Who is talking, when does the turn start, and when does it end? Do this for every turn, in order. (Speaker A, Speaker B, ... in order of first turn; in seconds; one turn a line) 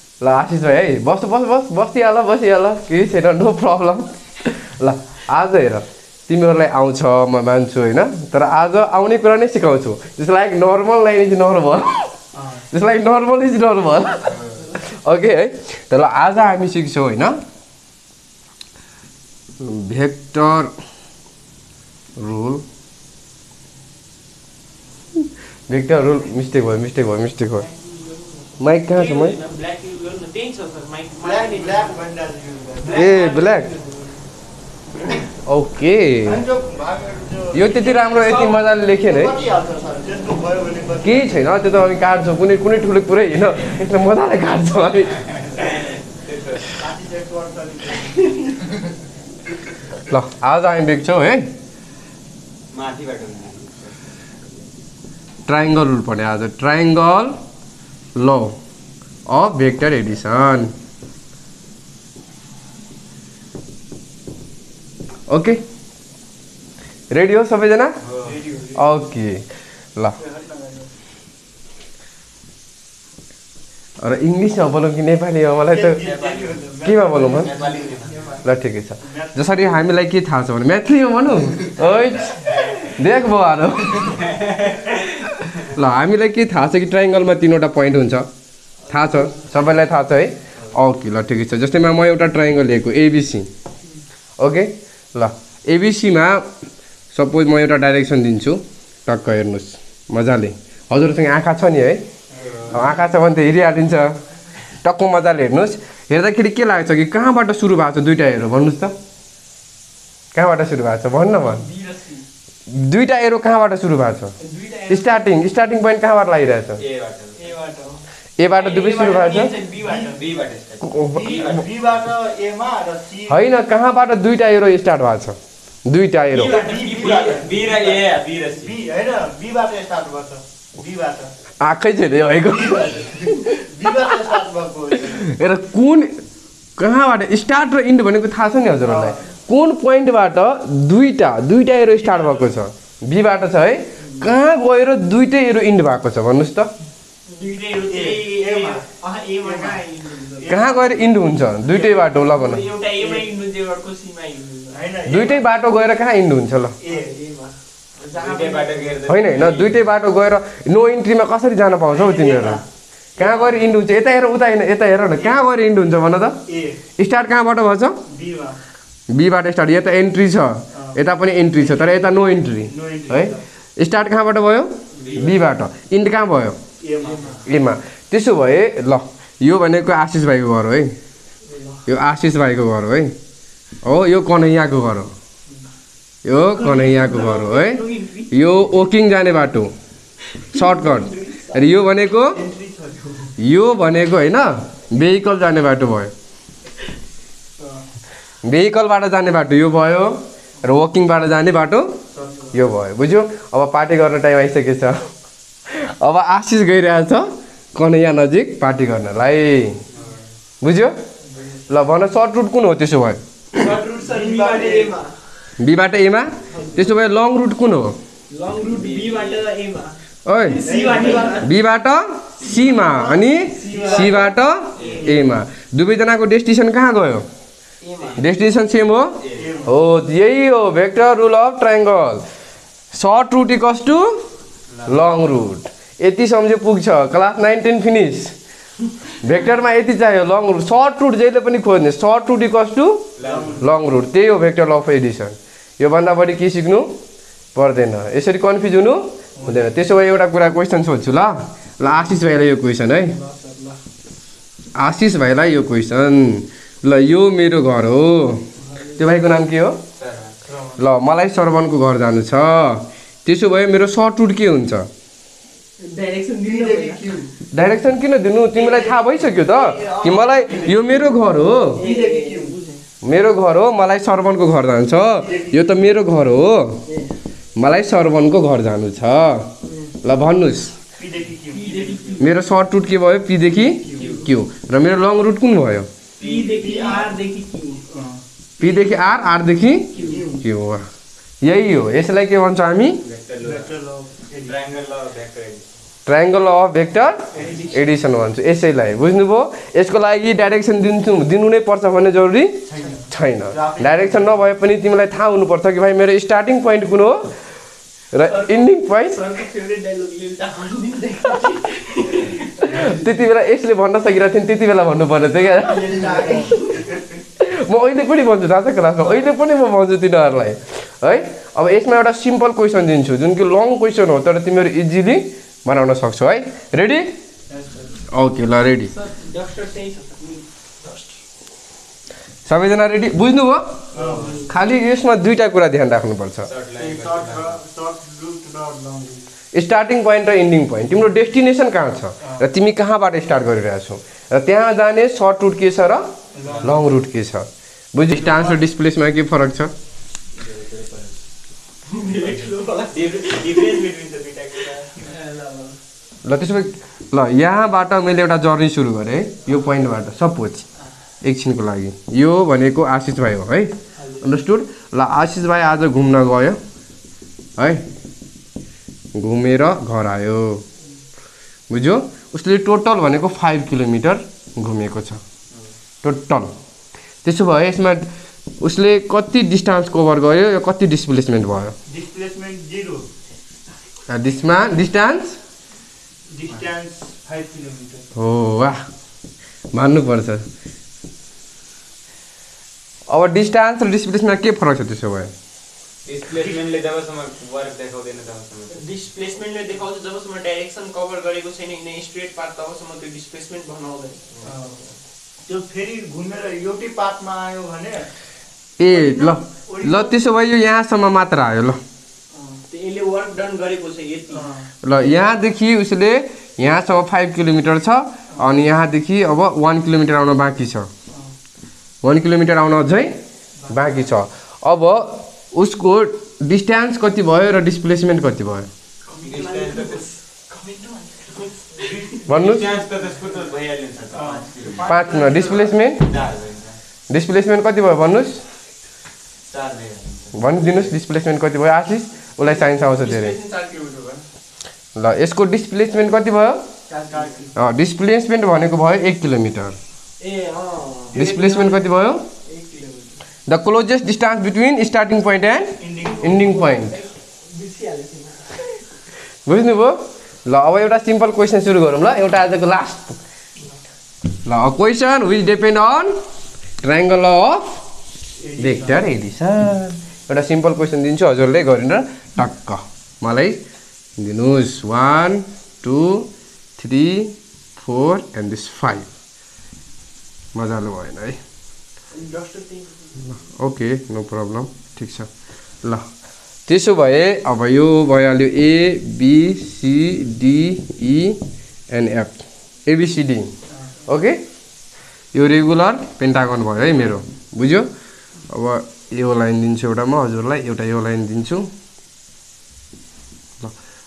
Speaker A: 0.2-12.1
Speaker B: 12.3-12.7
Speaker A: 12.7-17.4
Speaker A: 19.6-20.7
Speaker A: 22.2-22.6
Speaker A: 25.7-27.6
Speaker C: 27.6-32.0
Speaker A: 28.6-29.4
Speaker B: 31.2-33.1
Speaker C: 32.9-34.2
Speaker A: 32.9-33.7
Speaker A: 35.3-36.5
Speaker B: 36.2-38.3
Speaker A: 37.5-39.3
Speaker C: 37.9-38.6
Speaker B: 39.0-41.5
Speaker A: 41.0-45.2
Speaker D: 45.4-46.7
Speaker B: 46.7-48.8
Speaker A: 50.1-51.5
Speaker D: 52.7-53.9
Speaker A: 55.5-57.4
Speaker A: 58.1-58.5
Speaker A: 59.3-60.7
Speaker A: 65.3-65.6
Speaker A: 67.1-67.9
Speaker D: 68.0-68.4
Speaker B: 68.2-68.8
Speaker A: 68.7-69.4
Speaker B: 70.2-70.9
Speaker A: 74.0-76.0
Speaker B: 75.7-78.4
Speaker D: 76.0-76.6
Speaker A: 76.8-77.5
Speaker D: 77.2-78.2
Speaker A: 78.4-84.2
Speaker B: 79.0-79.8
Speaker D: 82.5-82.9
Speaker D: 84.0-84.9
Speaker A: 85.2-88.3
Speaker A: 88.9-93.5
Speaker A: 94.4-96.5
Speaker A: 97.1-102.0
Speaker B: 102.4-102.9
Speaker D: 102.4-102.8
Speaker A: 102.7-104.2
Speaker A: 104.8-108.9
Speaker A: 110.3-111.7
Speaker C: 111.3-112.2
Speaker A: 112.7-114.3
Speaker C: 114.4-115.1
Speaker A: 114.9-116.8
Speaker D: 116.8-117.5
Speaker C: 117.3-118.0
Speaker A: 118.4-119.5
Speaker C: 118.5-120.2
Speaker B: 119.8-120.1
Speaker D: 120.0-122.0
Speaker A: 120.8-121.4
Speaker B: 121.1-123.4
Speaker A: 123.3-126.6
Speaker D: 126.3-128.8
Speaker B: 126.4-131.3
Speaker A: 131.6-133.5
Speaker B: 132.5-135.2
Speaker A: 135.1-136.2
Speaker A: 136.8-146.7
Speaker B: 138.8-139.2
Speaker B: 142.0-142.6
Speaker B: 144.0-144.3
Speaker C: 147.2-150.9
Speaker B: 147.9-148.8
Speaker B: 149.4-149.8
Speaker B: 150.4-150.9
Speaker A: 150.5-152.7
Speaker C: 151.7-154.8
Speaker B: 153.0-153.2
Speaker B: 154.7-155.5
Speaker A: 155.1-156.8
Speaker B: 156.8-157.2
Speaker C: 156.9-158.9
Speaker D: 158.1-159.9
Speaker A: 159.1-162.6
Speaker B: 161.9-162.6
Speaker A: 163.2-166.4
Speaker B: 163.2-163.7
Speaker B: 166.5-166.8
Speaker A: 167.0-168.0
Speaker B: 168.1-168.6
Speaker A: 169.1-176.6
Speaker B: 171.6-173.4
Speaker D: 175.0-175.4
Speaker B: 176.8-177.4
Speaker A: 177.5-180.9
Speaker C: 181.5-181.8
Speaker A: 181.8-183.1
Speaker A: 183.8-185.1
Speaker A: 186.2-189.7
Speaker C: 186.6-188.3
Speaker C: 190.3-191.6
Speaker A: 190.5-192.4
Speaker B: 192.3-193.3
Speaker A: 193.4-196.1
Speaker B: 197.6-197.8
Speaker A: 198.4-201.9
Speaker B: 202.1-202.6
Speaker A: 202.5-205.0
Speaker A: 205.7-209.8
Speaker A: 210.6-210.9
Speaker B: 211.3-211.6
Speaker A: 211.7-213.2
Speaker B: 213.5-214.9
Speaker C: 213.6-215.1
Speaker A: 215.6-218.0
Speaker C: 216.5-216.9
Speaker C: 218.3-221.5
Speaker D: 218.7-219.5
Speaker A: 220.2-227.2
Speaker B: 220.6-221.5
Speaker B: 222.7-224.3
Speaker C: 223.6-225.3
Speaker D: 224.8-225.2
Speaker C: 227.8-228.2
Speaker A: 228.2-232.2
Speaker D: 229.2-229.5
Speaker B: 229.3-229.8
Speaker A: 232.9-234.2
Speaker D: 234.7-235.1
Speaker A: 234.8-238.3
Speaker A: 239.2-246.9
Speaker D: 243.2-243.6
Speaker B: 243.2-243.7
Speaker A: 247.5-253.2
Speaker B: 249.4-249.7
Speaker C: 253.2-253.8
Speaker A: 254.8-259.8
Speaker D: 260.0-260.3
Speaker B: 260.5-260.8
Speaker A: 260.8-264.9
Speaker C: 265.8-267.0
Speaker B: 266.4-267.3
Speaker A: 267.5-271.8
Speaker B: 268.5-271.2
Speaker C: 271.7-272.8
Speaker B: 271.8-272.6
Speaker A: 273.0-276.8
Speaker B: 275.1-275.7
Speaker C: 276.9-277.1
Speaker A: 277.6-279.5
Speaker C: 279.6-279.9
Speaker A: 280.0-280.7
Speaker B: 281.0-282.2
Speaker C: 281.5-282.3
Speaker A: 282.2-285.9
Speaker B: 283.8-284.3
Speaker C: 286.2-287.8
Speaker B: 286.2-287.1
Speaker B: 287.9-288.8
Speaker A: 288.6-290.8
Speaker C: 290.0-290.3
Speaker B: 290.0-290.4
Speaker A: 291.4-293.0
Speaker D: 293.0-293.7
Speaker B: 293.4-294.6
Speaker D: 294.4-295.6
Speaker A: 296.1-307.3
Speaker B: 297.3-297.8
Speaker B: 302.7-304.5
Speaker A: 308.1-309.2
Speaker C: 308.2-313.1
Speaker A: 312.7-316.0
Speaker B: 315.6-317.1
Speaker C: 315.7-316.9
Speaker A: 317.4-327.1
Speaker B: 327.5-328.0
Speaker A: 328.1-328.9
Speaker C: 328.9-331.0
Speaker A: 332.4-333.8
Speaker B: 333.9-334.4
Speaker C: 334.0-334.5
Speaker A: 334.5-336.5
Speaker D: 336.4-337.6
Speaker B: 336.8-339.2
Speaker A: 339.5-346.1
Speaker B: 346.3-347.0
Speaker D: 346.4-346.8
Speaker A: 346.6-349.7
Speaker B: 348.1-348.6
Speaker D: 350.4-351.2
Speaker C: 351.9-353.8
Speaker D: 352.0-354.9
Speaker C: 354.9-355.8
Speaker A: 356.2-360.6
Speaker A: 361.2-366.6
Speaker A: 367.6-367.8
Speaker A: 369.1-370.6
Speaker A: 371.7-375.2
Speaker A: 376.0-376.5
Speaker A: 377.2-378.1
Speaker A: 378.6-381.7
Speaker B: 381.9-383.0
Speaker A: 384.1-385.4
Speaker B: 386.3-388.1
Speaker A: 388.1-388.8
Speaker A: 389.7-390.4
Speaker A: 393.1-395.3
Speaker D: 396.1-398.9
Speaker B: 396.3-396.6
Speaker C: 398.7-404.3
Speaker B: 404.4-404.8
Speaker B: 405.4-408.1
Speaker A: 408.8-411.8
Speaker B: 408.8-410.2
Speaker C: 412.5-414.5
Speaker B: 414.3-414.7
Speaker A: 414.8-420.9
Speaker A: 422.0-423.1
Speaker A: 423.7-428.7
Speaker C: 429.1-432.1
Speaker D: 429.2-430.1
Speaker B: 431.8-432.3
Speaker A: 432.3-432.7
Speaker D: 432.3-434.9
Speaker B: 434.1-435.8
Speaker A: 434.8-436.1
Speaker D: 436.0-436.8
Speaker A: 437.1-438.4
Speaker D: 439.5-440.9
Speaker A: 440.3-443.4
Speaker C: 442.4-444.2
Speaker A: 444.9-446.6
Speaker C: 446.9-447.5
Speaker B: 447.1-447.5
Speaker A: 447.6-449.7
Speaker C: 450.2-451.2
Speaker B: 451.1-451.9
Speaker A: 451.1-452.2
Speaker C: 452.4-453.2
Speaker A: 453.5-457.0
Speaker B: 455.8-456.5
Speaker C: 456.1-458.8
Speaker A: 459.4-463.2
Speaker A: 464.4-466.1
Speaker A: 466.8-467.8
Speaker B: 468.4-469.1
Speaker A: 468.6-473.6
Speaker A: 474.2-479.1
Speaker A: 480.5-481.4
Speaker C: 482.1-483.2
Speaker A: 483.2-485.3
Speaker A: 486.7-493.5
Speaker A: 494.1-494.4
Speaker A: 495.3-497.9
Speaker A: 498.5-501.7